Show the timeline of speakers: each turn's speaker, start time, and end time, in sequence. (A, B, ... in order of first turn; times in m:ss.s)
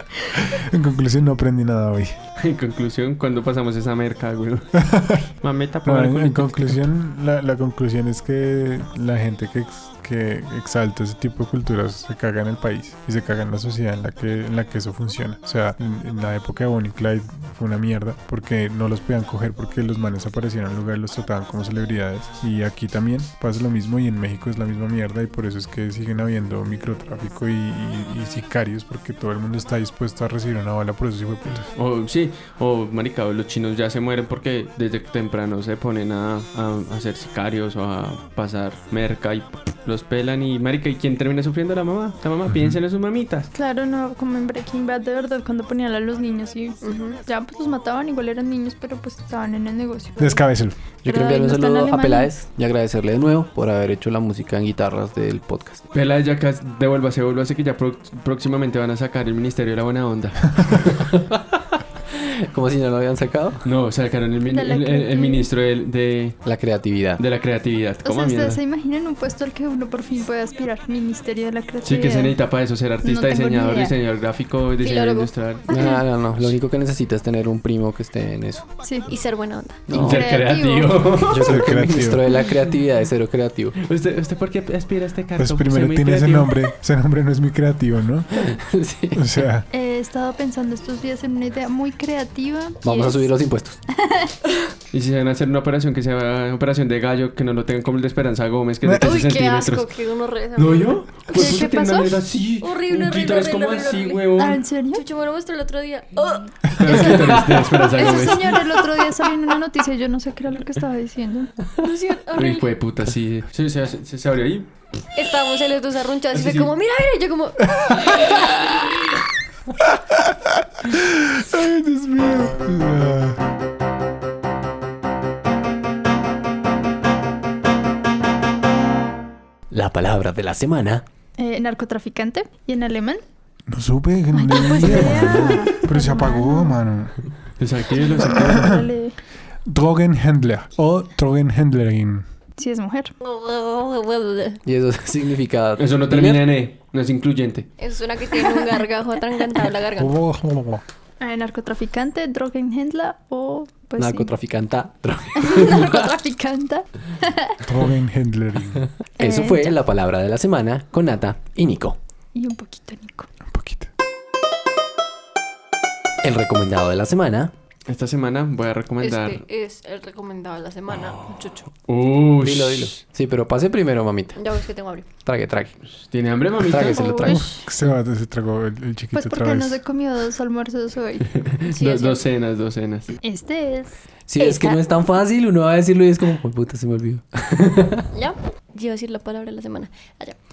0:00.3-0:02.2 A
0:02.4-0:06.8 B
0:04.8-0:05.2 A
0:05.8-0:31.7 A
0:31.8-0:43.5 B
0:42.5-0:42.8 A
0:43.5-0:50.5 C
0:46.8-0:47.2 D
0:50.2-0:50.8 A
0:51.0-0:55.8 E
0:51.0-0:52.3 C
0:55.9-1:01.1 B
1:02.1-1:03.6 E
1:03.6-1:06.4 B
1:04.5-1:05.5 C
1:06.4-1:07.2 E
1:07.2-1:08.6 B
1:08.0-1:12.4 C
1:11.8-1:15.7 B
1:13.0-1:14.0 C
1:14.8-1:16.0 D
1:15.7-1:18.6 E
1:18.8-1:19.1 C
1:19.1-1:20.0 D
1:19.9-1:20.2 E
1:19.9-1:21.2 C
1:19.9-1:21.5 B
1:21.3-1:23.8 E
1:21.4-1:22.2 A
1:23.8-1:26.7 B
1:25.4-1:28.6 A
1:28.4-1:29.3 E
1:29.1-1:29.7 A
1:29.7-1:33.3 C
1:32.8-1:33.8 E
1:34.0-1:34.3 C
1:34.9-1:39.9 B
1:38.8-1:39.1 A
1:39.0-1:41.7 D
1:40.6-1:44.6 B
1:41.3-1:42.2 C
1:42.6-1:44.4 D
1:44.4-1:45.0 C
1:44.9-1:48.1 D
1:46.8-1:48.7 B
1:47.0-1:51.5 C
1:51.8-1:52.7 D
1:52.4-1:54.7 B
1:55.2-1:58.8 D
1:56.3-1:56.7 B
1:57.7-1:58.1 A
1:59.9-2:03.4 A
2:09.7-2:11.0 E
2:11.4-2:13.2 C
2:13.7-2:17.2 A
2:14.3-2:16.8 C
2:14.8-2:15.6 B
2:17.6-2:18.5 B
2:18.0-2:19.2 C
2:18.2-2:18.9 A
2:19.7-2:22.3 A
2:22.6-2:23.1 C
2:23.2-2:24.6 D
2:24.6-2:26.5 E
2:25.8-2:27.7 B
2:27.8-2:30.2 D
2:30.0-2:30.8 A
2:31.2-2:34.3 C
2:34.0-2:36.1 E
2:35.4-2:37.6 C
2:37.6-2:38.9 A
2:39.2-2:39.8 C
2:39.2-2:42.0 E
2:42.3-2:43.3 C
2:43.5-2:43.9 A
2:46.2-2:47.5 E
2:47.9-2:49.4 B
2:49.0-2:51.7 D
2:51.9-2:53.0 B
2:52.4-2:54.4 E
2:54.4-2:55.1 D
2:55.2-2:55.7 E
2:55.9-2:57.1 B
2:56.6-2:57.4 E
2:56.8-2:57.7 C
2:57.2-2:59.8 A
2:59.1-3:01.3 C
3:01.3-3:03.2 B
3:01.7-3:02.2 D
3:03.2-3:03.9 C
3:04.3-3:08.1 E
3:04.4-3:04.8 D
3:08.1-3:10.4 D